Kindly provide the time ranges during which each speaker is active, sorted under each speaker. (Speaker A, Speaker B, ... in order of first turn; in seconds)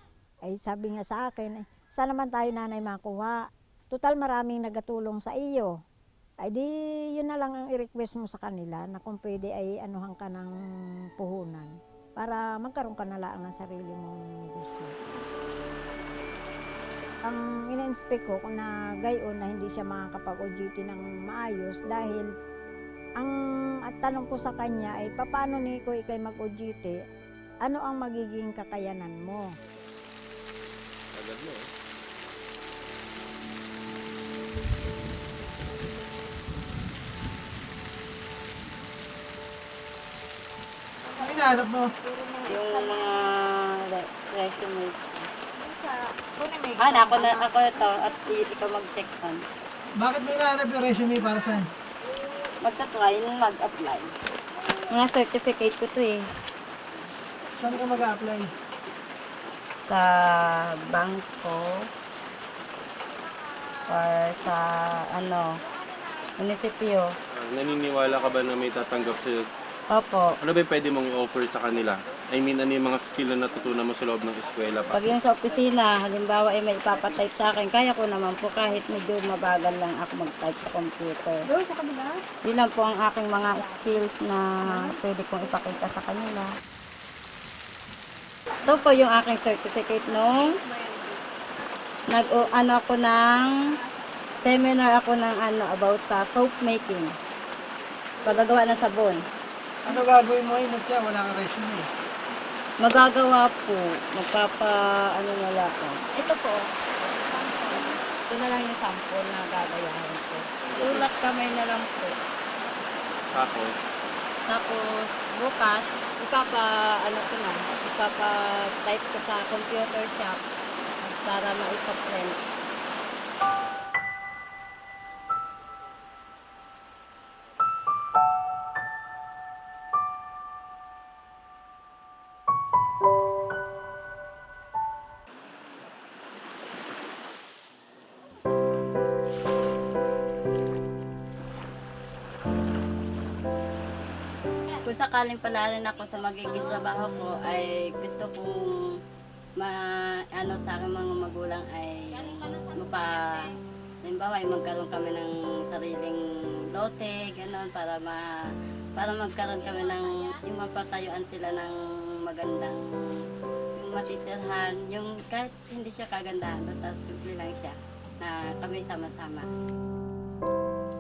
Speaker A: 0.5-5.7, 6.4-10.5, 11.2-15.0, 17.2-22.3, 23.8-27.0, 27.6-29.5, 42.1-43.0, 45.6-47.5
Speaker B: 31.1-31.7, 67.4-69.6, 70.4-75.0, 110.7-111.1, 113.3-113.7
Speaker C: 41.2-41.9, 50.0-51.7, 57.6-58.5, 99.8-101.9
Speaker D: 42.5-45.3, 46.8-49.4, 52.6-54.1, 54.9-56.3, 59.9-61.9, 63.9-65.6, 66.4-67.1, 69.9-70.3, 74.9-81.5, 82.4-86.5, 88.7-90.5, 92.1-93.5, 94.4-97.1, 98.2-99.2, 102.8-106.7, 107.3-112.2, 114.5-120.4, 121.1-122.4, 144.8-148.7, 149.6-156.2, 156.7-158.3, 159.0-162.8, 163.8-169.5